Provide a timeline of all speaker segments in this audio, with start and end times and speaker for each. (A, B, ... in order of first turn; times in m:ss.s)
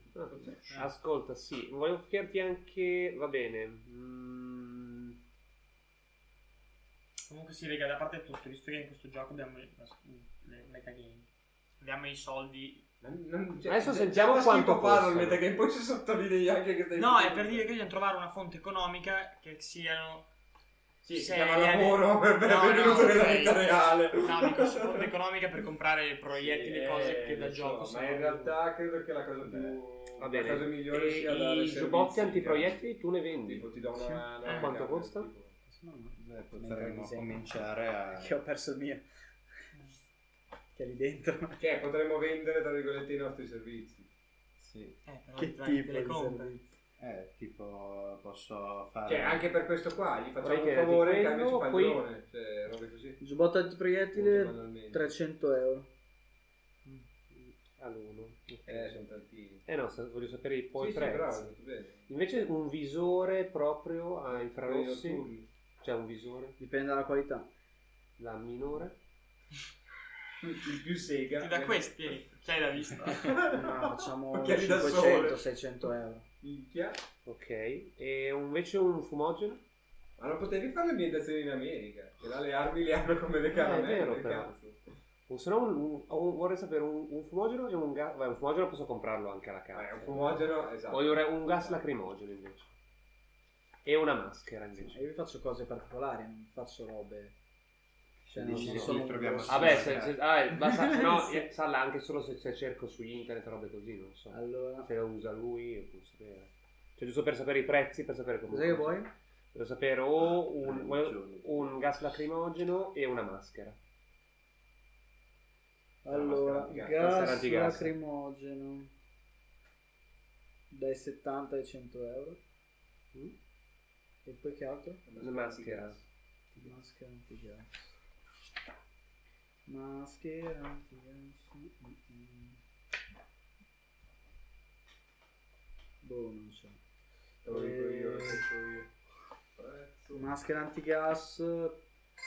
0:00.1-0:05.2 A
0:07.3-0:12.9 B
0:13.0-0:17.8 C
0:13.6-0:15.6 A
0:17.0-0:20.3 B
0:21.0-0:25.0 C
0:21.0-0:28.6 B
0:26.3-0:32.8 C
0:29.4-0:29.8 D
0:30.2-0:33.7 A
0:33.4-0:35.6 C
0:34.0-0:34.2 E
0:34.4-0:34.7 B
0:34.4-0:35.3 A
0:35.7-0:37.4 E
0:36.2-0:38.4 D
0:38.1-0:39.0 E
0:40.7-0:41.6 E
0:41.6-0:44.1 C
0:44.6-0:45.0 D
0:45.0-0:46.6 B
0:45.3-0:46.7 E
0:47.0-0:49.5 D
0:49.0-0:53.2 C
0:50.4-0:52.0 A
0:53.2-0:55.9 E
0:54.1-0:55.1 C
0:57.3-0:59.0 A
0:58.6-0:59.6 C
0:59.6-1:01.5 A
1:00.7-1:02.1 C
1:02.1-1:05.3 A
1:04.4-1:05.4 C
1:05.8-1:06.6 A
1:06.6-1:07.5 E
1:08.2-1:09.0 A
1:10.4-1:12.2 C
1:11.4-1:13.4 B
1:13.1-1:15.4 C
1:13.4-1:16.3 E
1:16.4-1:17.0 C
1:17.2-1:19.6 A
1:20.2-1:24.8 C
1:23.5-1:24.5 A
1:25.3-1:32.7 A
1:29.7-1:31.8 C
1:33.8-1:35.0 A
1:34.8-1:37.3 E
1:38.2-1:40.2 D
1:38.3-1:40.0 E
1:38.5-1:49.0 A
1:40.7-1:41.4 E
1:44.3-1:44.9 E
1:48.5-1:49.1 E
1:49.5-1:53.8 A
1:50.6-1:52.1 D
1:56.0-1:58.9 E
1:56.1-1:57.5 C
1:56.2-1:57.9 A
2:00.7-2:02.4 E
2:04.2-2:05.0 E
2:05.0-2:06.0 C
2:05.2-2:06.0 A
2:06.5-2:07.9 E
2:09.7-2:12.6 E
2:16.0-2:16.8 E
2:17.4-2:18.9 C
2:17.5-2:18.4 E
2:19.6-2:20.3 C
2:20.1-2:21.8 E